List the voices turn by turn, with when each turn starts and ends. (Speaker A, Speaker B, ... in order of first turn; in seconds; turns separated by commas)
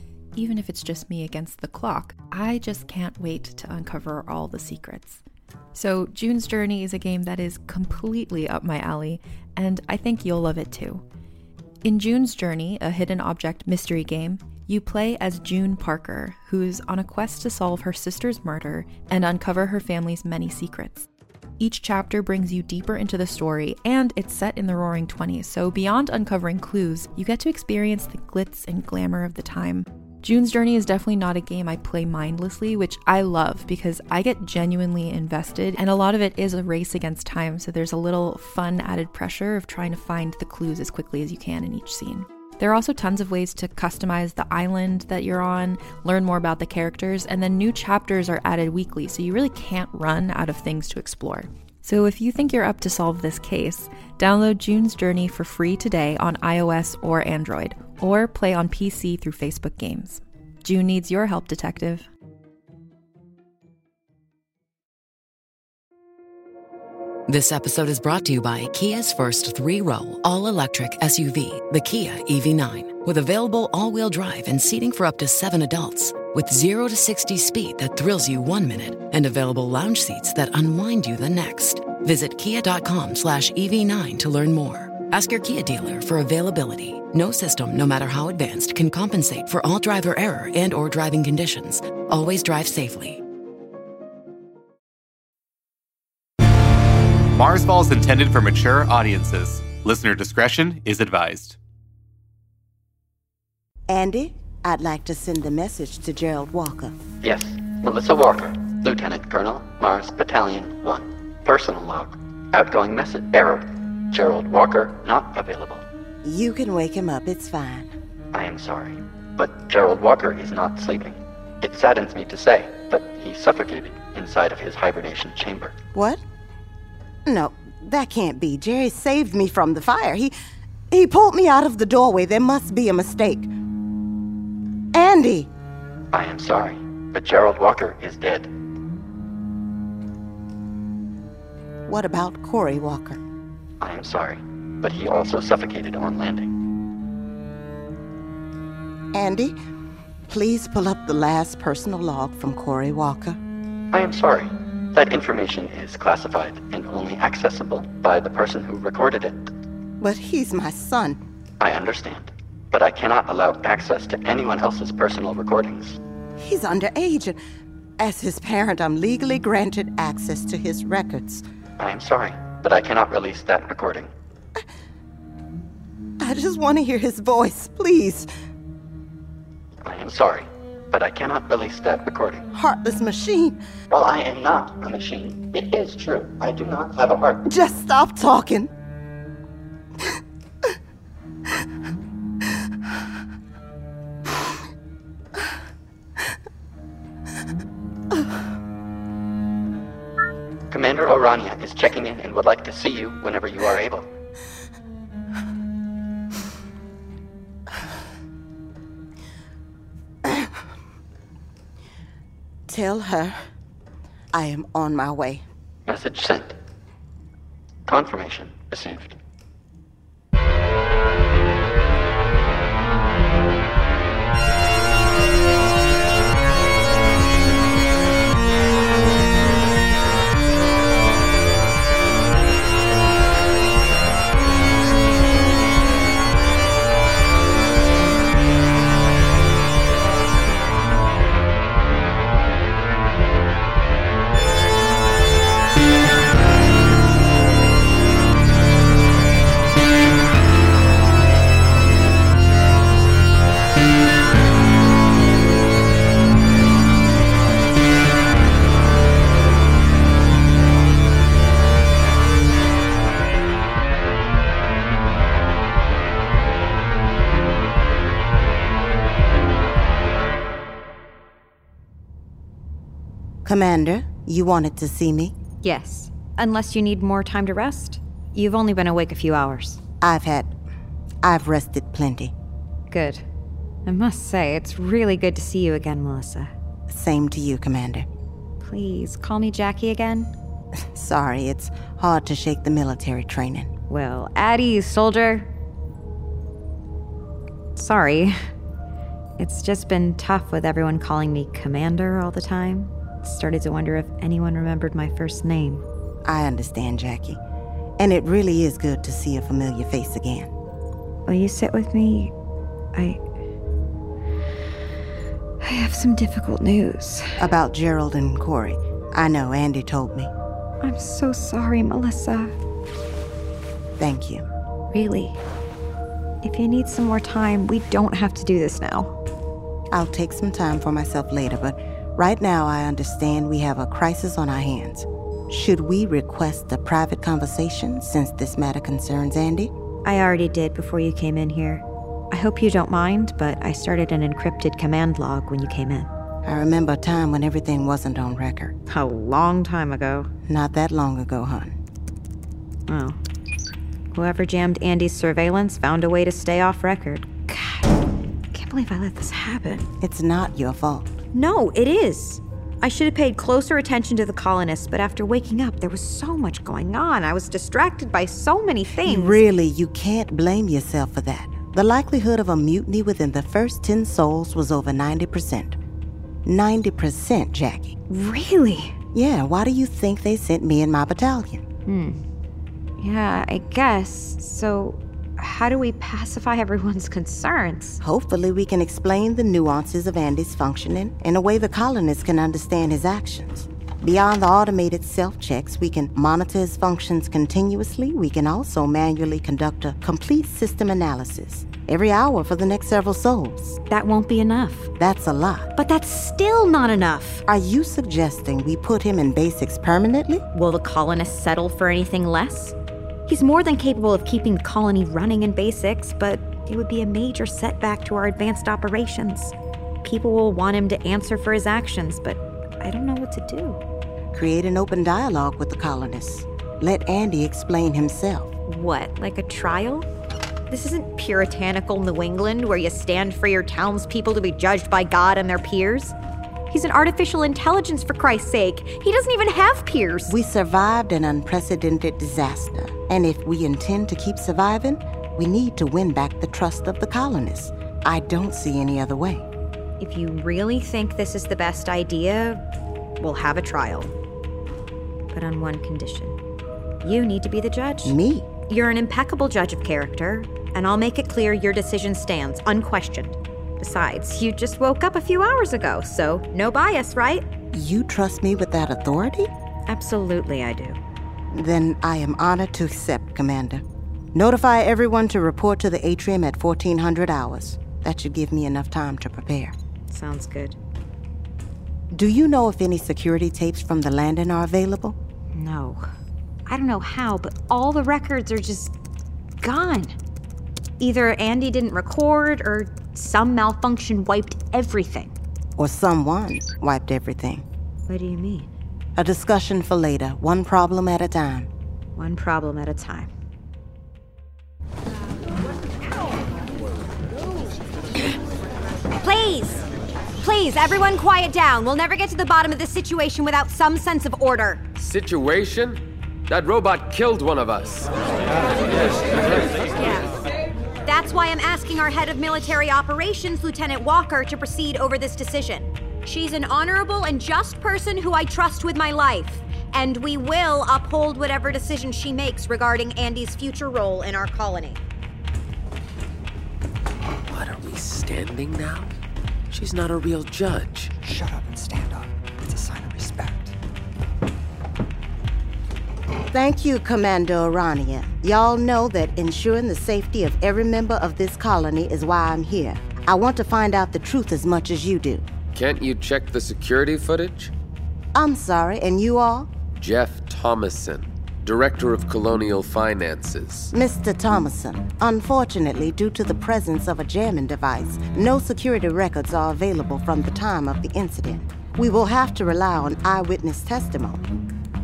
Speaker A: 0.3-5.2, Speaker A: 5.7-11.0, Speaker A: 11.8-21.1, Speaker A: 21.6-62.1, Speaker B: 67.3-93.2, Speaker C: 97.3-101.6, Speaker D: 103.9-107.0, Speaker E: 107.2-115.8, Speaker D: 116.2-117.9, Speaker E: 118.3-125.7, Speaker D: 125.9-126.2, Speaker D: 127.2-130.3, Speaker D: 130.9-133.5, Speaker D: 134.9-135.5, Speaker E: 136.1-138.5, Speaker D: 141.9-143.2, Speaker E: 143.8-146.5, Speaker D: 149.1-149.6, Speaker D: 150.3-153.4, Speaker E: 153.9-159.5, Speaker D: 160.0-161.2, Speaker E: 161.6-166.0, Speaker D: 166.4-167.4, Speaker D: 168.0-171.4, Speaker E: 171.8-174.1, Speaker D: 176.2-178.3, Speaker E: 179.8-182.4, Speaker D: 182.5-183.6, Speaker E: 183.9-187.4, Speaker D: 187.4-188.7, Speaker E: 200.7-204.1, Speaker D: 210.2-210.5, Speaker D: 212.7-213.4, Speaker D: 214.3-215.4, Speaker E: 215.9-216.6, Speaker E: 217.9-219.2, Speaker D: 273.4-275.3, Speaker F: 275.6-279.8, Speaker D: 280.0-280.5, Speaker D: 281.2-282.3, Speaker F: 282.9-283.2, Speaker F: 283.9-286.5, Speaker D: 286.9-288.1, Speaker F: 288.6-290.3, Speaker D: 290.9-293.7, Speaker F: 293.9-295.5, Speaker F: 297.8-298.4, Speaker F: 299.4-305.8, Speaker D: 306.2-307.4, Speaker D: 308.0-310.5, Speaker F: 311.2-312.3, Speaker F: 312.9-313.2, Speaker F: 315.6-317.4, Speaker D: 317.4-320.3, Speaker F: 320.8-322.5, Speaker D: 324.0-324.4, Speaker F: 324.9-325.4, Speaker F: 326.4-329.1, Speaker D: 329.9-339.7, Speaker F: 340.0-346.1, Speaker D: 346.4-348.8, Speaker F: 348.9-350.3, Speaker D: 350.5-351.8, Speaker F: 352.9-353.2, Speaker F: 354.1-357.9, Speaker F: 358.5-359.9, Speaker D: 360.0-361.1, Speaker F: 361.3-369.4, Speaker D: 369.0-375.8, Speaker D: 376.4-377.9, Speaker F: 378.1-379.0, Speaker D: 379.1-381.6, Speaker F: 381.9-382.2, Speaker F: 383.0-388.0, Speaker D: 388.0-403.8, Speaker F: 403.9-404.9, Speaker D: 405.0-405.7, Speaker F: 405.8-407.4, Speaker D: 407.5-410.4, Speaker F: 410.5-412.8, Speaker F: 413.3-423.8, Speaker D: 424.3-428.5, Speaker F: 428.7-430.1, Speaker F: 430.7-436.1, Speaker F: 436.7-440.3, Speaker D: 440.3-449.5, Speaker F: 450.0-452.6, Speaker F: 453.2-454.1, Speaker F: 455.3-456.4, Speaker F: 457.0-467.4, Speaker D: 458.0-458.5, Speaker D: 467.7-469.5, Speaker F: 469.9-471.0, Speaker D: 471.5-479.8, Speaker F: 480.1-480.8, Speaker D: 482.1-485.2, Speaker F: 485.5-486.1, Speaker F: 486.7-488.9, Speaker F: 489.6-490.1, Speaker F: 491.0-495.3, Speaker D: 495.8-497.6, Speaker F: 498.1-498.7, Speaker D: 499.1-501.7, Speaker F: 502.1-503.3, Speaker F: 509.2-509.9, Speaker F: 510.4-514.9, Speaker G: 515.0-518.2, Speaker G: 518.9-519.7, Speaker F: 520.0-520.2, Speaker F: 521.0-535.0, Speaker G: 537.4-539.1, Speaker G: 539.7-541.1, Speaker H: 541.2-543.7, Speaker D: 546.5-555.5, Speaker G: 555.7-557.7, Speaker D: 558.3-559.7, Speaker G: 560.0-563.9, Speaker D: 563.9-574.4